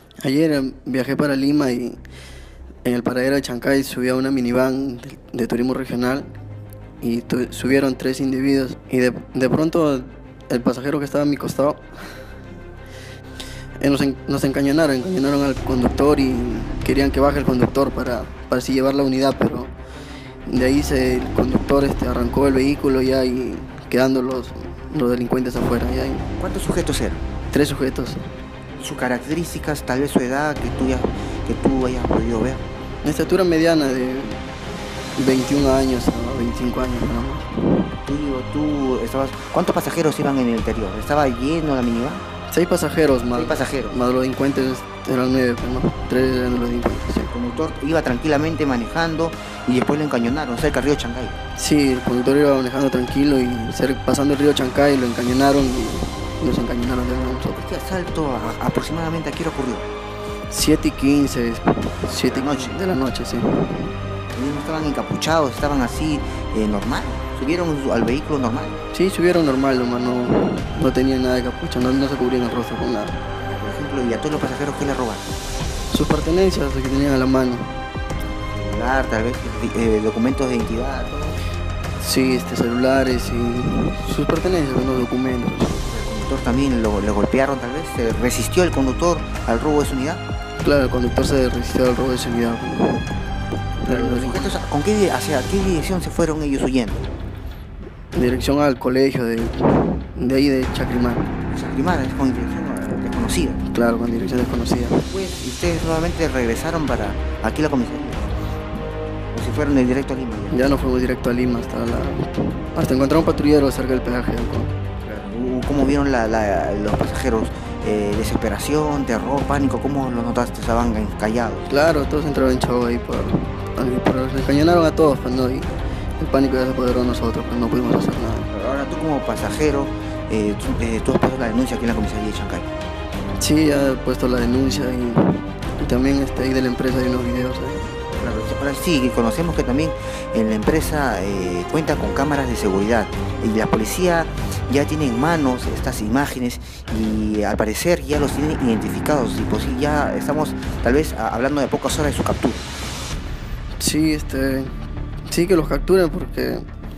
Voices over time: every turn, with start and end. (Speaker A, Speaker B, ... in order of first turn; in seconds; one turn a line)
Speaker A: 0.2-2.0
Speaker A: 2.8-6.3
Speaker A: 7.0-11.8
Speaker A: 13.8-19.7
Speaker A: 20.5-26.3
Speaker B: 26.4-27.2
Speaker A: 27.5-28.3
Speaker B: 28.8-32.6
Speaker A: 33.0-34.4
Speaker A: 35.2-37.9
Speaker B: 38.1-42.2
Speaker A: 42.5-47.3
Speaker B: 43.3-44.0
Speaker B: 47.3-51.4
Speaker A: 51.6-57.6
Speaker B: 57.5-59.9
Speaker A: 60.5-63.9
Speaker B: 62.2-62.8
Speaker B: 64.3-68.8
Speaker A: 68.9-73.2
Speaker B: 73.5-75.2
Speaker A: 75.9-77.7
Speaker B: 78.5-81.4
Speaker A: 82.0-85.8
Speaker B: 85.7-90.2
Speaker A: 90.6-93.1
Speaker A: 93.8-94.6
Speaker B: 93.8-97.1
Speaker A: 98.1-101.3
Speaker B: 101.5-103.6
Speaker A: 103.6-105.0
Speaker B: 105.1-108.4
Speaker B: 109.3-110.6
Speaker A: 110.5-114.7
Speaker B: 115.0-121.6
Speaker A: 121.7-128.5
Speaker B: 128.5-132.7
Speaker A: 133.4-137.9
Speaker B: 138.2-152.6
Speaker A: 153.8-154.7
Speaker A: 155.3-156.6